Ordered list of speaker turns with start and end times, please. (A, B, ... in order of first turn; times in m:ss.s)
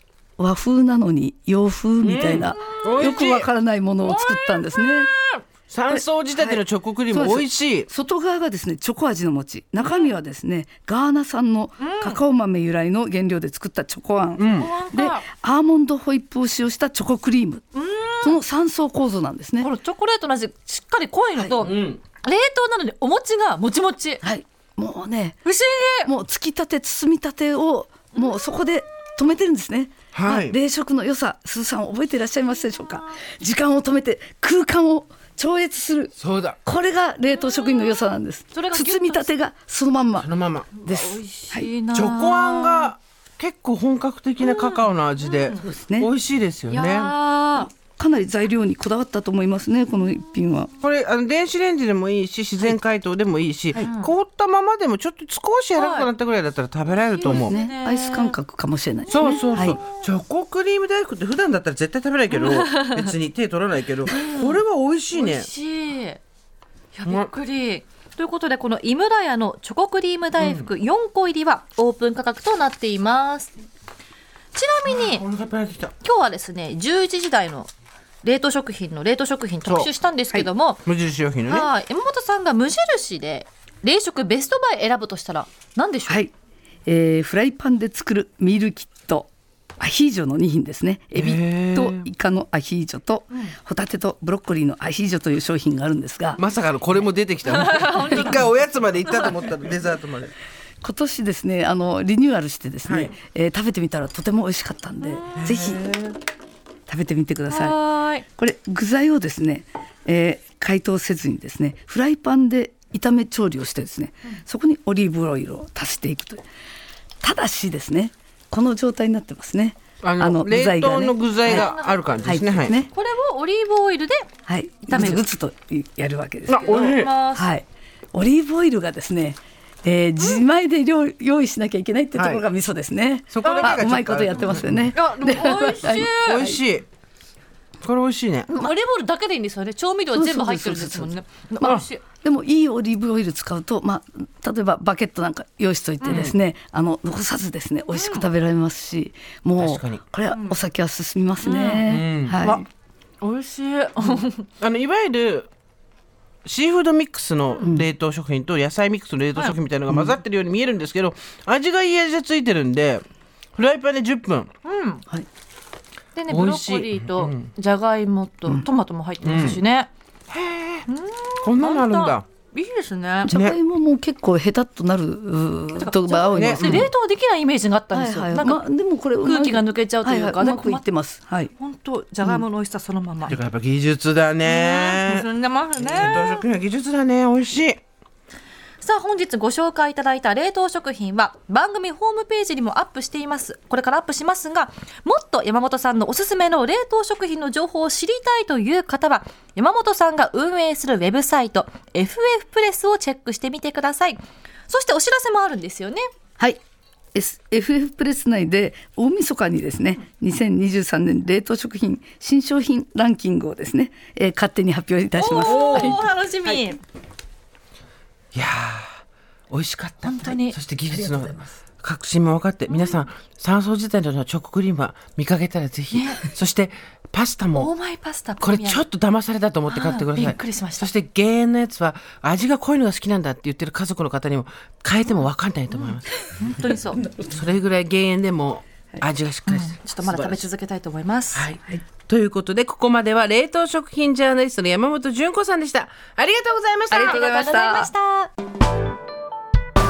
0:00.4-0:05.1 A
0:02.0-0:03.5 B
0:02.6-0:03.3 C
0:04.0-0:05.4 C
0:05.7-0:07.9 B
0:05.9-0:17.6 A
0:09.8-0:10.1 C
0:11.8-0:12.2 C
0:14.4-0:14.7 B
0:14.5-0:15.2 C
0:17.7-0:18.4 C
0:18.2-0:19.7 A
0:19.6-0:24.2 C
0:21.4-0:21.6 A
0:21.6-0:22.0 B
0:24.2-0:25.4 A
0:25.4-0:26.1 C
0:26.0-0:40.3 A
0:30.1-0:30.6 B
0:36.2-0:36.6 B
0:37.6-0:39.3 C
0:40.2-0:40.7 B
0:40.7-0:42.9 C
0:40.8-0:41.7 A
0:41.9-0:47.1 B
0:44.4-0:45.6 C
0:45.5-0:46.1 A
0:46.7-0:47.7 C
0:47.5-0:50.7 A
0:50.8-0:57.5 B
0:53.8-0:54.1 C
0:55.8-0:56.1 C
0:56.9-0:58.4 C
0:57.2-0:59.8 A
0:59.0-1:00.0 C
0:59.1-1:05.5 B
1:02.3-1:03.1 C
1:04.1-1:04.6 C
1:05.1-1:06.2 C
1:07.0-1:13.5 C
1:07.0-1:07.3 B
1:10.4-1:10.7 B
1:14.5-1:15.2 C
1:14.9-1:15.9 B
1:16.0-1:17.7 C
1:18.2-1:20.8 C
1:19.6-1:19.9 B
1:20.9-1:21.7 B
1:21.5-1:26.2 C
1:26.1-1:26.3 A
1:26.9-1:36.4 A
1:31.2-1:32.1 B
1:36.4-1:40.3 B
1:37.5-1:38.5 C
1:39.1-1:39.3 C
1:40.8-1:45.8 A
1:42.8-1:43.1 B
1:45.4-1:46.2 B
1:46.9-1:56.4 A
1:47.5-1:48.2 C
1:57.2-2:01.7 A
2:00.0-2:02.8 B
2:01.4-2:02.1 C
2:02.2-2:02.9 A
2:02.9-2:04.3 C
2:04.5-2:06.8 A
2:04.9-2:05.3 C
2:06.5-2:07.2 B
2:06.5-2:07.5 C
2:07.3-2:16.6 A
2:12.2-2:12.4 B
2:13.3-2:14.9 B
2:13.4-2:13.8 C
2:14.9-2:16.5 C
2:16.0-2:16.9 B
2:17.8-2:18.5 B
2:18.5-2:22.0 C
2:20.1-2:32.6 A
2:26.0-2:26.3 C
2:26.0-2:26.4 B
2:27.9-2:28.2 C
2:29.6-2:30.0 B
2:30.3-2:30.6 C
2:31.4-2:31.9 C
2:31.9-2:32.6 B
2:33.2-2:34.5 C
2:34.6-2:35.5 B
2:36.4-2:43.0 B
2:43.6-2:44.5 B
2:44.6-2:45.0 C
2:46.2-2:49.9 C
2:46.3-2:47.5 B
2:49.2-2:49.6 B
2:50.3-2:50.9 B
2:50.9-2:53.3 C
2:51.4-2:52.2 B
2:53.2-2:56.9 A
2:53.3-2:53.6 B
2:55.8-2:58.7 C
2:56.4-2:56.9 B
2:57.9-3:01.5 A
2:59.2-3:00.8 C
3:01.6-3:03.4 C
3:03.2-3:05.3 B
3:04.4-3:06.4 C
3:05.8-3:07.8 B
3:08.8-3:26.0 C
3:27.1-3:36.6 A
3:35.2-3:36.8 C
3:35.3-3:36.0 B
3:38.3-3:47.7 B
3:40.1-3:40.6 C
3:42.7-3:43.0 C
3:45.9-3:46.3 C
3:47.5-3:48.8 C
3:48.4-3:56.1 B
3:49.7-3:50.9 C
3:55.7-3:57.0 C
3:57.2-4:00.5 B
3:59.5-4:01.5 C
4:01.3-4:07.2 B
4:06.9-4:07.9 A
4:07.0-4:08.3 C